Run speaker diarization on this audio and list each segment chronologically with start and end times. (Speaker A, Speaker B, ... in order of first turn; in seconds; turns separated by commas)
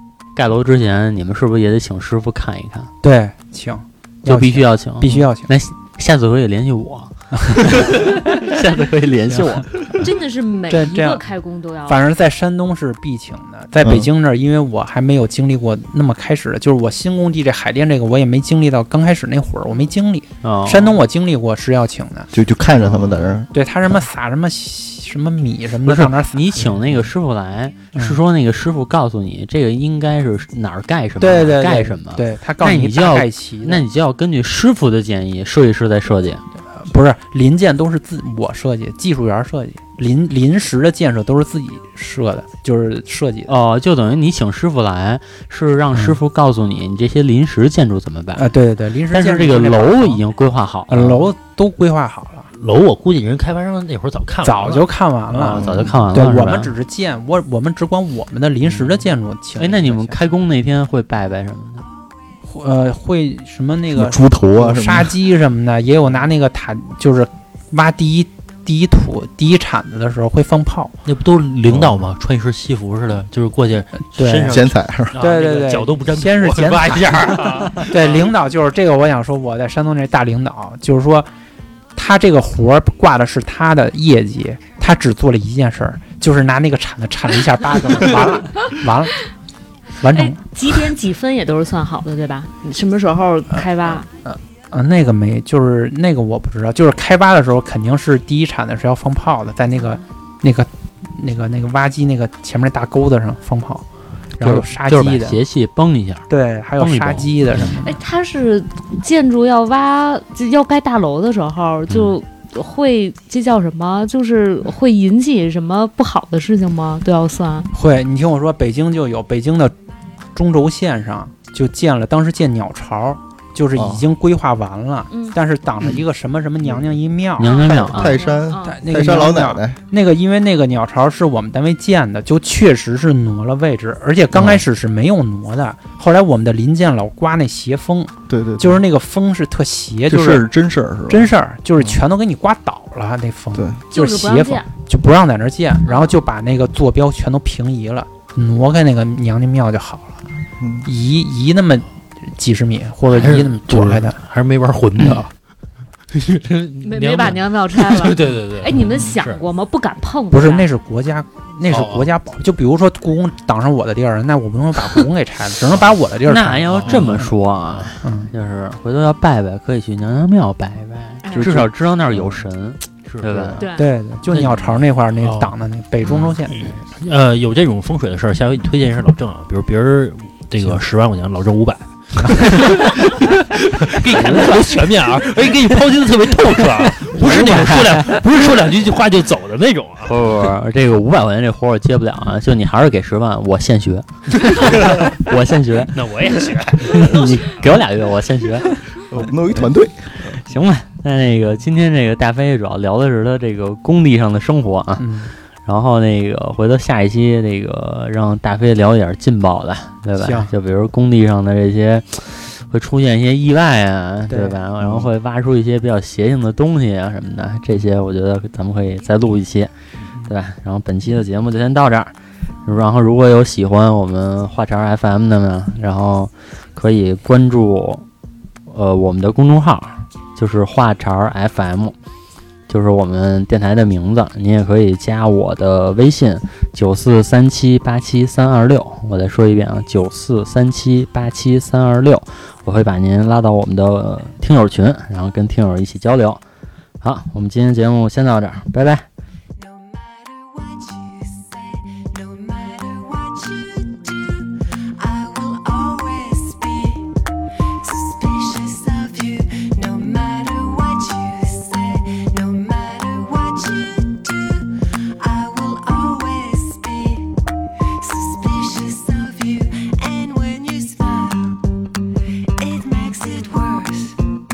Speaker A: 0.3-2.9, Speaker B: 3.0-5.5, Speaker A: 4.2-10.0, Speaker B: 7.4-8.4, Speaker B: 9.3-9.7, Speaker C: 10.0-12.0, Speaker B: 10.7-11.2, Speaker B: 11.8-22.3, Speaker D: 13.8-14.1, Speaker A: 20.4-21.0, Speaker D: 22.3-23.5, Speaker B: 22.9-27.1, Speaker A: 25.9-36.4, Speaker B: 31.2-33.9, Speaker B: 36.7-43.5, Speaker A: 43.5-48.5, Speaker B: 45.9-46.2, Speaker B: 48.4-50.2, Speaker A: 49.1-51.3, Speaker B: 50.9-52.5, Speaker E: 52.5-54.9, Speaker B: 54.4-60.2, Speaker A: 55.3-56.7, Speaker D: 55.5-56.1, Speaker A: 59.6-61.9, Speaker B: 62.5-70.9, Speaker D: 63.9-65.2, Speaker E: 71.0-78.2, Speaker D: 71.7-72.0, Speaker B: 74.1-74.7, Speaker D: 74.5-75.1, Speaker B: 75.2-81.3, Speaker B: 82.0-89.2, Speaker B: 90.0-90.4, Speaker C: 90.1-94.1, Speaker B: 93.5-103.8, Speaker B: 104.4-105.4, Speaker A: 104.4-106.3, Speaker B: 106.3-108.0, Speaker A: 106.8-107.7, Speaker C: 107.8-117.7, Speaker E: 111.9-112.2, Speaker B: 117.7-119.8, Speaker B: 120.3-127.6, Speaker D: 123.8-124.0, Speaker C: 125.1-125.4, Speaker A: 127.4-128.2, Speaker C: 127.4-128.8, Speaker D: 127.6-129.8, Speaker B: 128.6-140.5, Speaker D: 134.3-134.6, Speaker D: 138.3-138.8, Speaker D: 140.1-141.9, Speaker B: 141.1-150.2, Speaker D: 143.6-143.8, Speaker C: 143.9-144.7, Speaker C: 145.9-146.1, Speaker D: 150.6-150.9, Speaker B: 150.9-154.2, Speaker E: 153.1-155.3, Speaker E: 156.1-159.4, Speaker C: 156.8-160.7, Speaker B: 160.3-167.3, Speaker E: 161.7-162.1, Speaker A: 166.2-173.7, Speaker E: 166.7-167.9, Speaker B: 168.0-168.3, Speaker C: 171.2-171.6, Speaker D: 171.3-172.5, Speaker D: 173.3-173.6, Speaker C: 173.6-173.9, Speaker B: 173.8-176.8, Speaker E: 174.3-190.5, Speaker A: 184.1-184.8, Speaker A: 186.6-188.2, Speaker A: 190.1-198.8, Speaker E: 194.6-195.0, Speaker E: 195.9-197.8, Speaker D: 199.1-200.2, Speaker A: 200.3-205.1, Speaker B: 205.0-205.3, Speaker A: 205.7-219.7, Speaker B: 210.2-210.5, Speaker B: 214.3-214.6, Speaker D: 214.8-215.1, Speaker A: 220.3-228.1, Speaker A: 228.7-232.0, Speaker A: 232.7-246.4, Speaker A: 247.0-249.1, Speaker F: 249.6-257.2, Speaker F: 257.8-267.4, Speaker F: 268.0-271.7, Speaker F: 272.6-274.2